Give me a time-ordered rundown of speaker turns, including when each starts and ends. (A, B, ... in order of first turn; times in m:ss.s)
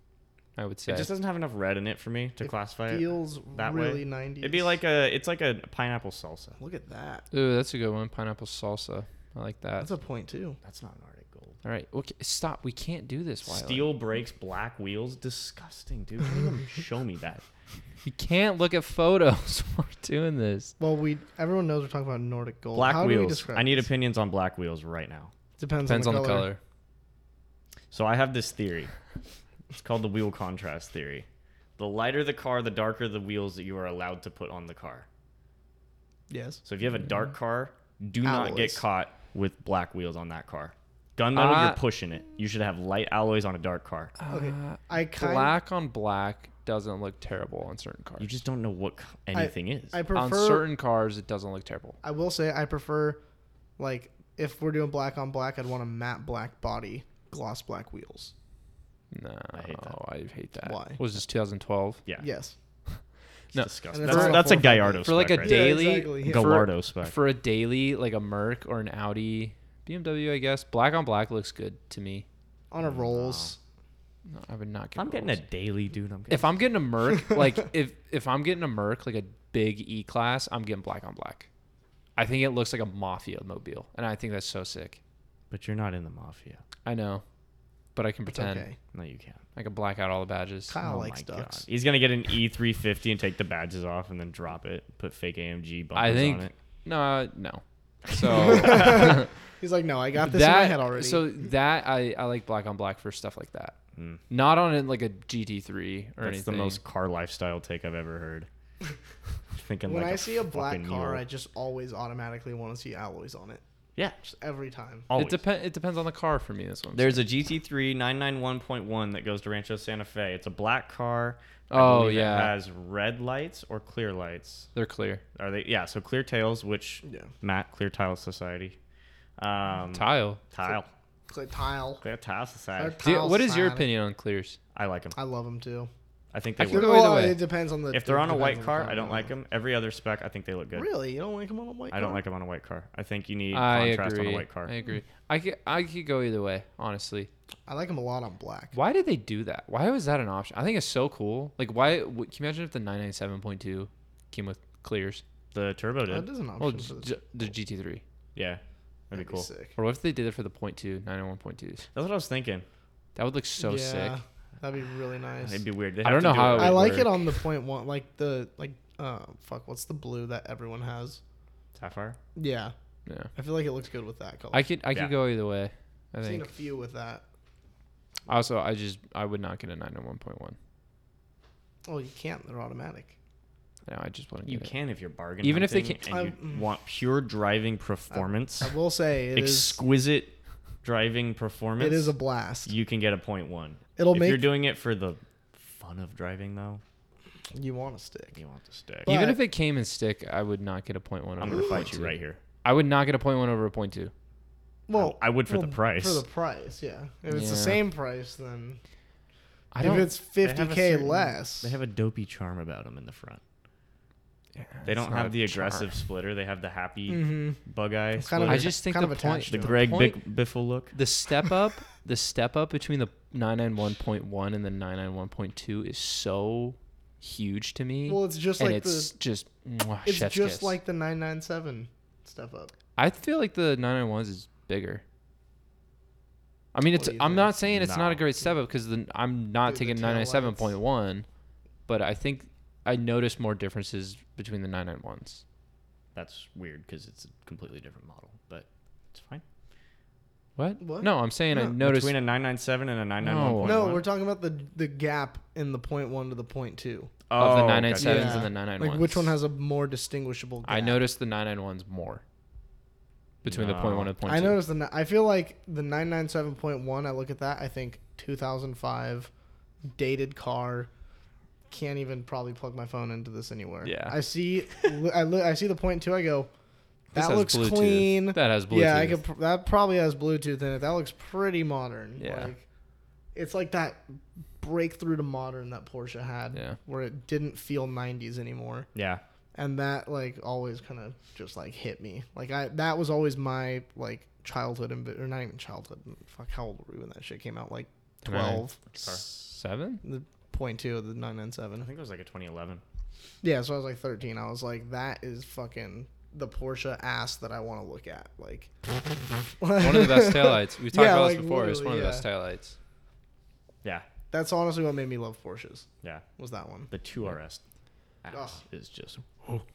0:00.6-0:01.1 A
0:00.9-0:06.6 B
0:02.4-0:04.8 C
0:06.6-0:07.2 C
0:07.3-0:09.9 A
0:09.8-0:10.6 C
0:10.6-0:11.6 B
0:11.6-0:13.9 A
0:13.4-0:17.4 B
0:18.0-0:20.7 A
0:20.8-0:23.8 C
0:22.7-0:25.3 B
0:25.6-0:26.5 C
0:25.9-0:26.6 A
0:27.9-0:28.9 B
0:29.8-0:31.2 B
0:31.8-0:35.1 B
0:36.3-0:36.6 C
0:36.6-0:44.1 B
0:38.2-0:38.8 C
0:41.3-0:41.8 A
0:44.2-0:48.3 A
0:44.3-0:45.5 C
0:48.2-0:50.0 B
0:49.3-0:50.7 C
0:50.1-0:52.0 A
0:52.0-0:53.2 C
0:53.8-0:58.3 C
0:59.1-1:02.0 A
0:59.5-1:00.0 B
1:00.6-1:01.0 C
1:02.2-1:02.5 C
1:03.5-1:12.2 A
1:03.5-1:07.1 B
1:03.9-1:06.5 C
1:12.7-1:13.6 C
1:12.8-1:13.5 B
1:14.3-1:15.4 A
1:15.0-1:16.5 B
1:16.3-1:21.5 A
1:22.2-1:25.0 A
1:25.5-1:26.6 B
1:26.8-1:27.2 A
1:27.9-1:28.7 A
1:28.3-1:28.8 C
1:28.9-1:29.4 B
1:29.5-1:30.8 A
1:30.7-1:31.6 C
1:30.8-1:36.5 B
1:35.9-1:39.3 A
1:38.3-1:41.3 C
1:40.2-1:43.8 A
1:44.0-1:44.2 B
1:44.3-1:46.8 A
1:46.2-1:48.5 B
1:49.5-1:51.2 B
1:49.9-1:53.6 C
1:54.2-1:55.1 C
1:55.1-1:55.4 B
1:55.1-1:57.3 A
1:56.9-2:04.7 B
2:01.7-2:02.5 A
2:04.7-2:05.2 A
2:05.4-2:08.8 B
2:07.0-2:07.3 C
2:09.4-2:10.9 B
2:09.9-2:10.4 A
2:11.3-2:12.0 C
2:12.0-2:13.0 B
2:12.8-2:13.9 C
2:13.0-2:14.6 A
2:14.7-2:15.1 B
2:15.1-2:15.9 C
2:16.3-2:17.0 B
2:16.6-2:17.4 A
2:16.6-2:19.3 C
2:17.9-2:20.9 B
2:20.7-2:22.2 C
2:21.9-2:24.7 B
2:23.5-2:27.3 A
2:27.7-2:28.7 C
2:28.7-2:35.2 A
2:35.5-2:36.2 B
2:36.1-2:37.2 C
2:36.6-2:38.0 A
2:38.3-2:39.5 B
2:39.1-2:39.7 C
2:39.8-2:41.9 A
2:41.9-2:42.6 B
2:43.2-2:44.2 A
2:43.6-2:45.6 C
2:45.4-2:47.1 B
2:46.0-2:47.3 A
2:46.5-2:51.2 C
2:51.7-2:52.2 B
2:52.4-2:52.7 C
2:53.3-2:54.6 C
2:54.5-2:56.5 A
2:56.2-2:57.2 C
2:58.3-3:00.6 A
3:01.8-3:03.1 C
3:03.9-3:04.7 A
3:04.4-3:08.7 B
3:05.4-3:06.0 A
3:06.1-3:06.6 C
3:08.1-3:09.8 C
3:09.3-3:12.1 B
3:11.8-3:12.7 C
3:12.6-3:16.8 B
3:14.0-3:14.5 C
3:17.5-3:18.4 C
3:18.3-3:19.1 B
3:19.0-3:19.4 C
3:19.0-3:24.1 A
3:21.4-3:22.4 B
3:24.9-3:28.8 C
3:24.9-3:26.2 B
3:27.3-3:27.8 A
3:29.7-3:30.1 A
3:29.8-3:31.8 C
3:30.4-3:33.4 B
3:34.6-3:36.0 A
3:34.8-3:38.7 B
3:37.1-3:37.6 C
3:38.2-3:39.8 C
3:38.4-3:40.2 A
3:39.5-3:40.9 B
3:40.9-3:50.8 A
3:48.1-3:49.1 C
3:50.0-3:52.7 C
3:53.0-3:55.0 A
3:56.7-4:01.2 A
3:56.9-3:57.6 C
3:57.7-3:58.2 B
3:59.6-4:00.7 C
4:01.9-4:05.4 A
4:06.1-4:09.4 B
4:10.6-4:12.2 A
4:10.8-4:11.7 C
4:11.8-4:14.0 B
4:13.2-4:13.8 A
4:13.6-4:17.1 C
4:17.3-4:18.4 B
4:17.4-4:19.3 A
4:18.0-4:21.0 C
4:20.6-4:22.2 A
4:23.4-4:24.1 B
4:23.4-4:24.6 A
4:24.2-4:29.3 C
4:29.9-4:30.9 C
4:31.7-4:36.5 C
4:33.8-4:34.2 A
4:37.1-4:42.6 C
4:37.1-4:39.2 A
4:42.2-4:42.5 A
4:43.3-4:44.0 C
4:44.6-4:48.9 C
4:48.9-4:49.2 B
4:49.5-4:58.9 C
4:58.2-5:00.0 A
4:58.9-4:59.2 B
5:00.0-5:01.9 C
5:01.8-5:02.8 B
5:03.4-5:08.7 C
5:09.6-5:12.2 C
5:09.7-5:12.8 A
5:14.3-5:15.9 C
5:16.4-5:16.9 C
5:16.9-5:17.6 B
5:18.2-5:19.3 B
5:18.3-5:18.6 C